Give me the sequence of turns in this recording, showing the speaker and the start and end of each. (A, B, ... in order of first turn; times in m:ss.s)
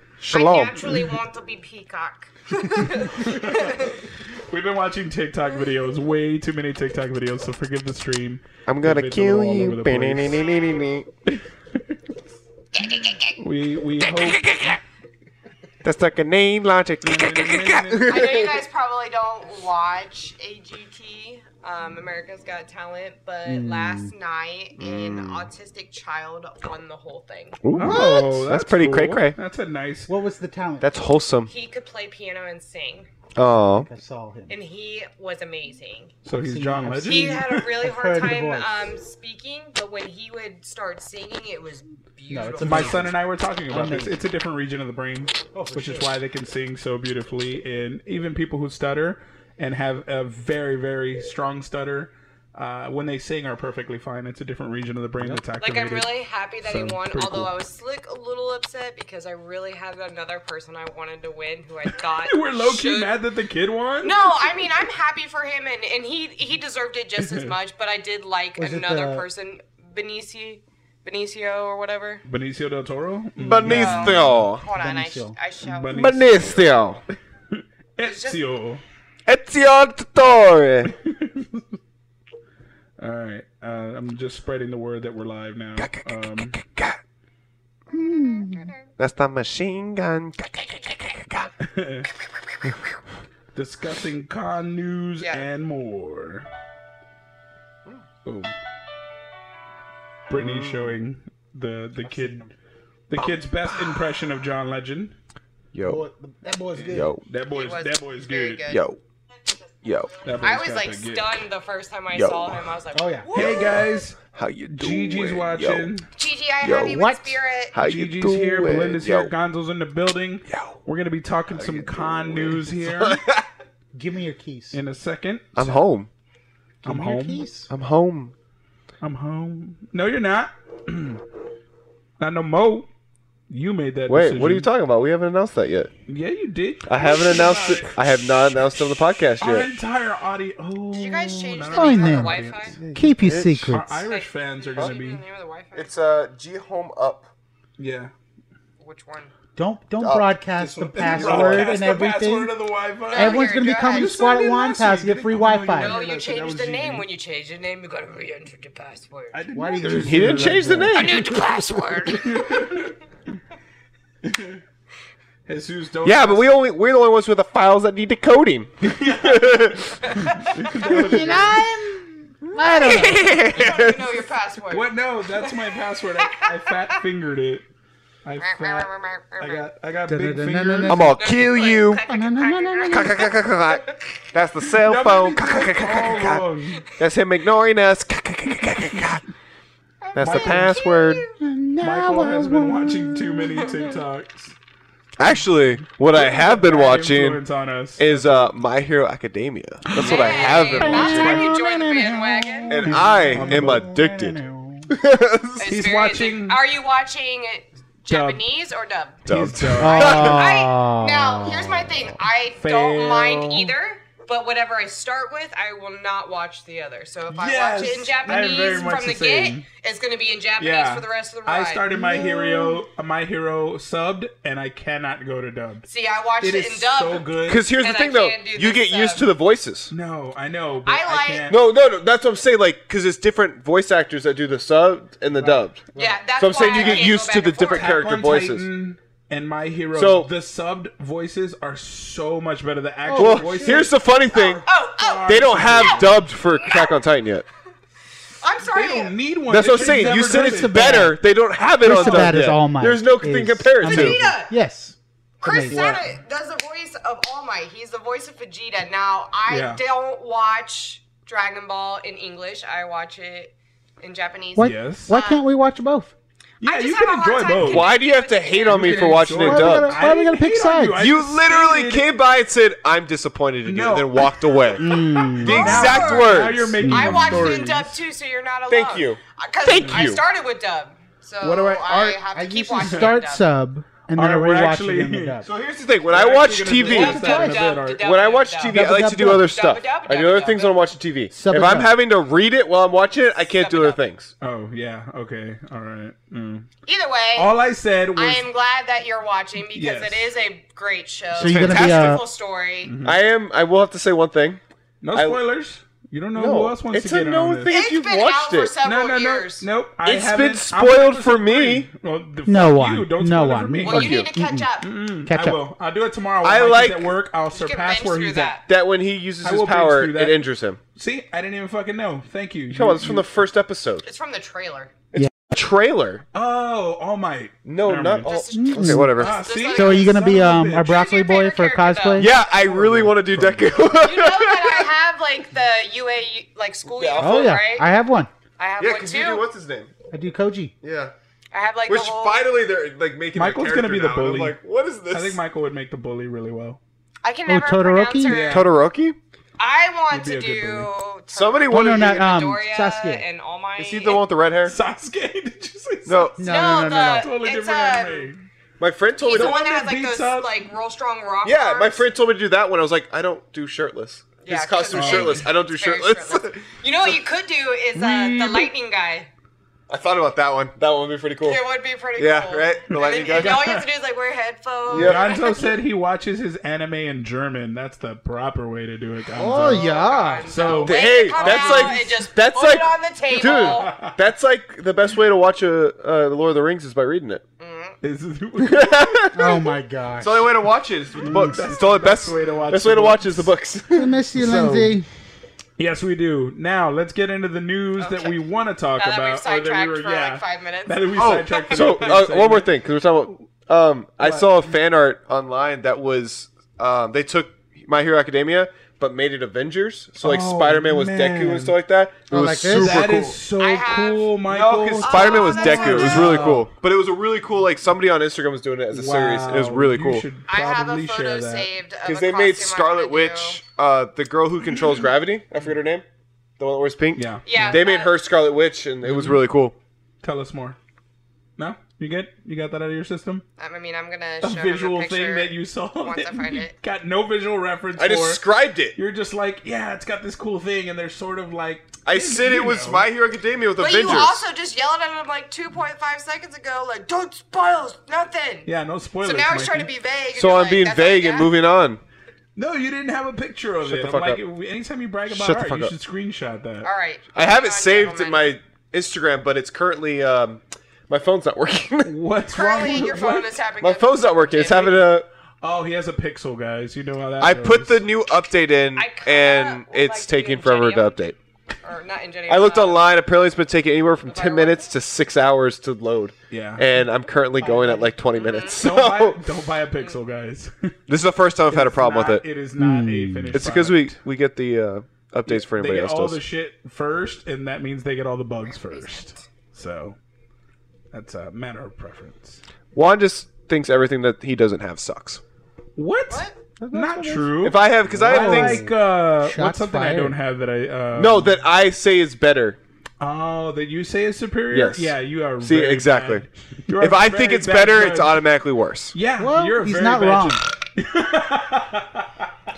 0:00.2-0:00.8 A
0:00.2-0:03.9 B
0:02.7-0:03.9 C
0:04.4-0:10.4 C
0:08.6-0:11.0 A
0:10.2-0:11.0 B
0:11.2-0:12.0 C
0:12.7-0:13.4 B
0:13.4-0:14.7 C
0:14.0-0:14.8 A
0:15.8-0:18.6 A
0:17.0-0:18.4 C
0:18.1-0:27.6 B
0:23.4-0:24.1 D
0:24.8-0:25.5 A
0:27.6-0:29.4 A
0:27.7-0:28.3 D
0:27.7-0:30.1 C
0:30.1-0:31.0 D
0:30.8-0:31.5 A
0:31.5-0:33.1 B
0:33.4-0:33.9 A
0:33.5-0:34.5 D
0:34.5-0:36.1 B
0:36.2-0:37.6 C
0:36.3-0:38.8 D
0:37.0-0:43.0 B
0:42.3-0:43.1 D
0:42.6-0:56.1 C
0:43.7-0:44.2 D
0:45.5-0:46.1 D
0:55.6-1:03.2 B
0:56.6-0:57.5 C
1:02.0-1:04.5 C
1:04.0-1:12.2 B
1:07.2-1:07.5 C
1:08.6-1:09.3 D
1:12.2-1:14.5 C
1:13.4-1:14.6 A
1:13.6-1:16.2 B
1:14.8-1:15.3 D
1:15.6-1:16.7 C
1:15.9-1:17.0 A
1:17.5-1:18.8 C
1:18.0-1:18.4 B
1:19.2-1:20.9 A
1:20.8-1:21.6 C
1:23.0-1:26.6 C
1:25.8-1:27.0 A
1:27.9-1:28.7 D
1:27.9-1:28.9 B
1:29.0-1:31.5 A
1:31.6-1:32.1 C
1:33.5-1:36.5 C
1:35.2-1:35.5 B
1:38.2-1:38.5 C
1:40.3-1:42.4 C
1:40.3-1:40.9 A
1:42.0-1:42.5 D
1:43.1-1:45.1 C
1:45.7-1:46.0 A
1:45.8-1:47.1 D
1:46.7-1:48.6 C
1:46.8-1:47.2 A
1:47.5-1:48.8 B
1:48.7-1:49.0 A
1:49.8-1:50.1 A
1:50.2-1:51.4 C
1:50.4-1:53.8 B
1:52.1-1:52.6 A
1:52.9-1:53.6 D
1:53.3-1:56.1 C
1:53.3-1:55.9 A
1:56.1-1:57.7 B
1:56.6-1:59.3 A
1:57.8-2:03.2 C
2:00.5-2:00.7 A
2:01.5-2:03.4 A
2:03.9-2:04.8 D
2:04.7-2:05.8 C
2:05.6-2:06.1 A
2:06.8-2:07.7 D
2:06.8-2:07.5 C
2:07.7-2:08.3 A
2:09.0-2:11.2 C
2:12.2-2:12.9 C
2:13.5-2:14.7 C
2:14.1-2:15.9 A
2:16.1-2:18.0 C
2:16.9-2:19.7 A
2:19.4-2:22.8 C
2:20.9-2:22.8 B
2:21.7-2:22.4 D
2:22.7-2:23.8 A
2:22.9-2:23.9 D
2:23.7-2:25.2 C
2:24.1-2:25.9 B
2:25.7-2:27.3 A
2:27.8-2:28.1 C
2:28.8-2:29.3 B
2:29.6-2:32.5 D
2:30.0-2:31.8 A
2:30.6-2:37.0 C
2:33.1-2:34.2 B
2:33.1-2:36.0 D
2:35.7-2:39.4 B
2:39.3-2:41.4 C
2:39.5-2:41.2 D
2:39.8-2:41.3 A
2:40.9-2:42.8 B
2:42.1-2:42.9 C
2:44.2-2:44.6 C
2:45.5-2:46.5 C
2:46.0-2:51.6 A
2:48.8-2:51.6 C
2:50.8-2:53.5 D
2:52.4-2:54.3 A
2:52.6-2:57.0 B
2:54.7-2:57.6 C
2:58.2-3:01.2 C
2:58.4-2:59.6 B
3:00.0-3:01.2 D
3:00.9-3:02.0 A
3:01.2-3:04.1 B
3:02.0-3:03.2 D
3:02.9-3:09.2 A
3:04.8-3:06.8 C
3:10.0-3:10.7 D
3:10.1-3:11.2 A
3:10.2-3:11.3 B
3:10.2-3:10.6 C
3:11.4-3:14.0 D
3:11.8-3:14.6 C
3:15.2-3:17.4 A
3:16.1-3:18.5 C
3:18.0-3:21.5 A
3:19.8-3:21.2 C
3:20.0-3:22.8 B
3:20.8-3:24.9 D
3:22.7-3:24.4 A
3:22.7-3:23.8 C
3:24.9-3:25.7 A
3:25.6-3:29.2 B
3:25.7-3:26.6 C
3:28.1-3:28.4 C
3:29.3-3:30.4 C
3:29.3-3:30.4 A
3:29.8-3:32.0 D
3:29.9-3:41.9 B
3:32.6-3:33.7 C
3:37.3-3:39.6 C
3:40.6-3:45.9 C
3:41.9-3:42.8 D
3:45.9-3:49.3 B
3:46.4-3:47.7 C
3:47.4-3:49.9 A
3:49.9-3:51.6 C
3:50.8-3:51.5 B
3:51.5-3:55.8 A
3:55.3-3:56.7 D
3:55.9-3:58.0 B
3:56.4-3:58.7 A
3:56.6-3:57.0 C
3:57.6-4:06.2 C
3:59.9-4:00.3 A
4:03.0-4:03.9 D
4:03.2-4:04.6 A
4:04.3-4:06.0 B
4:05.2-4:07.4 A
4:06.6-4:07.0 B
4:08.4-4:09.1 B
4:08.6-4:11.0 C
4:09.5-4:14.2 A
4:09.6-4:11.2 D
4:11.8-4:16.0 D
4:12.0-4:12.2 C
4:12.0-4:12.2 B
4:13.8-4:14.5 B
4:15.4-4:25.5 B
4:15.7-4:16.0 C
4:19.5-4:19.8 C
4:24.6-4:26.1 D
4:24.6-4:25.1 C
4:26.6-4:27.9 C
4:26.6-4:29.4 B
4:27.6-4:30.1 A
4:28.7-4:32.1 C
4:29.3-4:31.1 D
4:31.0-4:36.8 A
4:33.6-4:38.0 C
4:34.8-4:36.1 D
4:35.3-4:43.4 B
4:36.8-4:37.6 D
4:38.7-4:40.2 A
4:39.8-4:40.1 C
4:41.4-4:42.2 C
4:42.3-4:45.5 D
4:42.8-4:43.2 C
4:44.1-4:45.4 C
4:45.4-4:47.2 A
4:46.1-4:48.1 C
4:46.8-4:50.8 B
4:46.9-4:47.6 D
4:48.0-4:54.3 A
4:48.7-4:49.5 D
4:51.3-4:51.9 D
4:53.4-4:54.0 B
4:54.4-4:56.7 C
4:56.8-4:57.5 B
4:57.4-4:58.4 C
4:58.1-5:02.9 B
4:59.7-5:00.3 C
5:01.3-5:02.2 D
5:01.4-5:02.2 A
5:02.8-5:03.2 C
5:03.0-5:04.6 A
5:05.0-5:07.8 C
5:05.1-5:05.4 A
5:06.3-5:08.7 A
5:07.7-5:09.6 B
5:08.8-5:14.2 C
5:10.0-5:11.9 A
5:12.4-5:14.7 D
5:13.8-5:14.9 B
5:13.9-5:14.3 A
5:14.8-5:18.6 C
5:15.2-5:15.6 D
5:16.4-5:17.1 A
5:17.5-5:18.6 B
5:18.7-5:20.8 A
5:19.4-5:20.4 C
5:20.9-5:23.3 C
5:22.7-5:24.0 A
5:24.0-5:24.9 B
5:25.1-5:26.2 A
5:26.3-5:28.4 C
5:27.6-5:29.4 A
5:28.2-5:32.4 B
5:28.5-5:29.1 D
5:29.1-5:31.0 C
5:29.7-5:32.4 D
5:32.2-5:34.9 A
5:32.5-5:33.9 C
5:34.0-5:37.9 B
5:36.9-5:37.6 A
5:37.2-5:38.3 D
5:38.6-5:39.4 B
5:38.8-5:39.9 A
5:40.1-5:40.7 D
5:40.8-5:41.1 A
5:41.5-5:42.5 B
5:41.9-5:45.4 A
5:43.3-5:44.6 C
5:45.1-5:46.8 C
5:47.2-5:48.7 B
5:47.5-5:48.5 D
5:48.2-5:48.7 C
5:48.5-5:49.2 A
5:49.6-5:54.2 B
5:50.1-5:50.9 C
5:51.3-5:52.4 A
5:51.7-5:53.2 D
5:53.8-5:54.8 A
5:54.6-5:56.4 C
5:56.0-5:56.4 A
5:56.4-5:57.3 D
5:56.4-5:58.3 B
5:57.2-5:58.4 C
5:58.8-5:59.5 A
5:59.2-6:02.0 B
5:59.3-6:00.6 C
6:01.4-6:06.6 A
6:04.4-6:09.3 B
6:04.9-6:05.5 C
6:07.9-6:08.7 C
6:09.9-6:11.6 A
6:11.4-6:15.8 B
6:12.2-6:13.8 A
6:12.9-6:13.8 C
6:14.9-6:15.4 A
6:14.9-6:19.8 C
6:19.3-6:20.1 A
6:19.4-6:20.8 D
6:19.8-6:24.0 B
6:20.4-6:22.2 C
6:20.8-6:27.4 A
6:23.4-6:24.1 C
6:27.6-6:28.0 B
6:28.0-6:28.9 C
6:28.6-6:34.1 A
6:29.3-6:30.6 D
6:31.2-6:33.5 C
6:31.2-6:31.7 D
6:33.9-6:35.1 D
6:34.3-6:34.9 C
6:35.8-6:42.7 C
6:38.0-6:38.3 B
6:39.0-6:42.1 B
6:41.1-6:53.4 A
6:44.2-6:44.5 C
6:50.2-6:51.7 C
6:52.3-6:53.1 D
6:52.7-6:56.7 C
6:53.6-6:54.3 B
6:54.5-7:00.2 A
6:55.0-6:56.5 B
6:58.9-7:01.7 C
7:00.5-7:03.6 B
7:02.0-7:06.0 A
7:06.6-7:09.8 A
7:07.1-7:07.8 C
7:07.4-7:08.2 B
7:09.0-7:09.4 C
7:10.2-7:10.8 C
7:11.6-7:13.4 C
7:13.6-7:16.7 B
7:14.4-7:23.1 C
7:18.0-7:19.0 A
7:22.0-7:24.4 A
7:23.8-7:28.7 B
7:28.6-7:29.9 C
7:29.2-7:31.5 B
7:30.3-7:32.0 A
7:32.6-7:36.9 C
7:33.8-7:34.4 A
7:35.3-7:35.9 A
7:36.8-7:38.6 B
7:37.3-7:42.1 A
7:42.0-7:43.6 C
7:42.5-7:45.1 B
7:42.7-7:43.1 A
7:43.8-7:45.3 A
7:45.6-7:48.0 C
7:47.4-7:51.3 A
7:49.0-7:53.2 B
7:52.5-7:59.4 A
7:54.3-7:54.8 B
7:56.5-7:56.8 C
7:57.5-7:58.2 D
7:58.3-7:58.9 B
7:58.8-8:00.9 C
8:01.1-8:02.4 A
8:01.7-8:04.2 C
8:02.8-8:03.6 D
8:03.5-8:06.4 A
8:05.4-8:10.2 C
8:08.6-8:09.4 B
8:11.1-8:12.6 C
8:12.9-8:15.4 A
8:16.0-8:21.6 C
8:16.3-8:16.6 B
8:16.8-8:17.5 D
8:17.6-8:18.9 A
8:18.2-8:20.3 D
8:21.1-8:22.8 A
8:23.2-8:28.4 C
8:24.7-8:26.4 A
8:27.0-8:29.1 A
8:29.1-8:32.5 C
8:29.4-8:30.7 D